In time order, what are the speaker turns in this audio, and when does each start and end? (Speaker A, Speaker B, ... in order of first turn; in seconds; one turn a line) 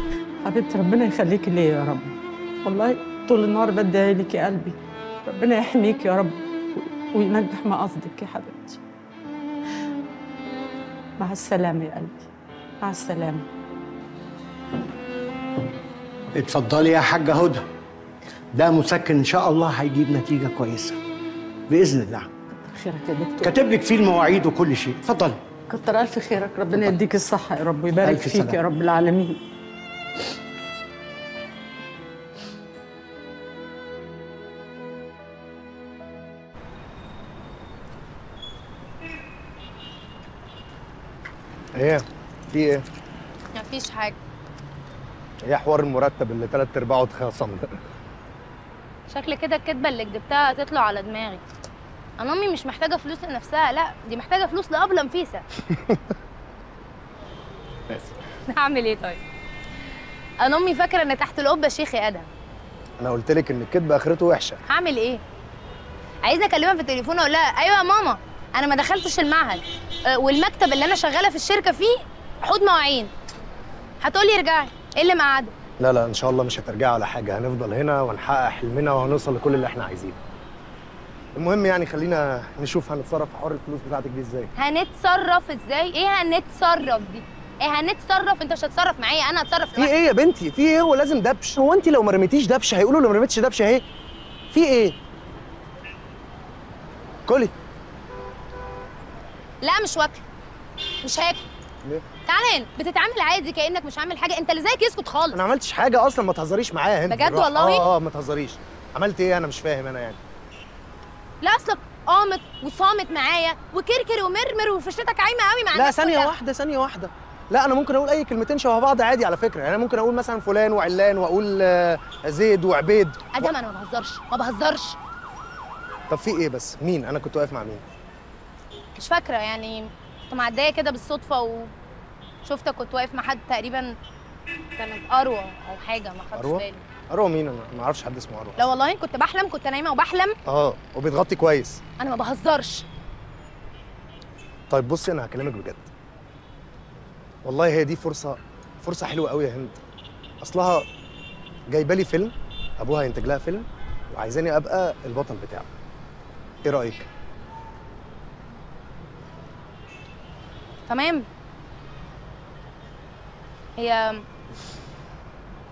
Speaker A: 0.5-8.8
Speaker A: 11.2-12.3
Speaker A: 12.8-13.5
Speaker B: 16.4-17.6
Speaker B: 18.5-21.0
Speaker B: 21.7-22.3
Speaker A: 22.5-23.6
Speaker B: 23.4-25.4
Speaker A: 25.7-29.4
Speaker B: 28.0-28.6
Speaker C: 41.8-42.8
Speaker D: 43.6-44.2
Speaker C: 45.4-47.7
Speaker D: 49.1-51.4
Speaker D: 52.2-55.4
Speaker D: 58.5-59.2
Speaker D: 60.4-62.3
Speaker C: 63.0-64.6
Speaker D: 64.7-65.2
Speaker D: 66.2-69.6
Speaker D: 70.1-73.1
Speaker D: 74.0-75.5
Speaker C: 75.8-80.2
Speaker C: 81.4-84.5
Speaker D: 84.6-89.9
Speaker C: 89.8-93.8
Speaker C: 94.5-95.0
Speaker C: 97.3-97.5
Speaker D: 99.6-100.2
Speaker D: 101.0-101.5
Speaker D: 102.3-105.4
Speaker C: 105.3-110.2
Speaker D: 107.1-107.9
Speaker D: 111.4-116.3
Speaker C: 115.7-123.5
Speaker D: 123.3-125.0
Speaker C: 126.1-127.8
Speaker D: 129.0-131.7
Speaker D: 132.4-133.9
Speaker D: 134.8-136.8
Speaker C: 136.4-138.7
Speaker D: 138.6-140.3
Speaker C: 140.5-141.8
Speaker D: 142.0-142.9
Speaker C: 144.7-145.9
Speaker C: 147.4-149.8
Speaker C: 150.4-150.8
Speaker C: 151.7-155.7
Speaker C: 156.6-157.1
Speaker D: 160.9-161.2
Speaker D: 163.8-164.2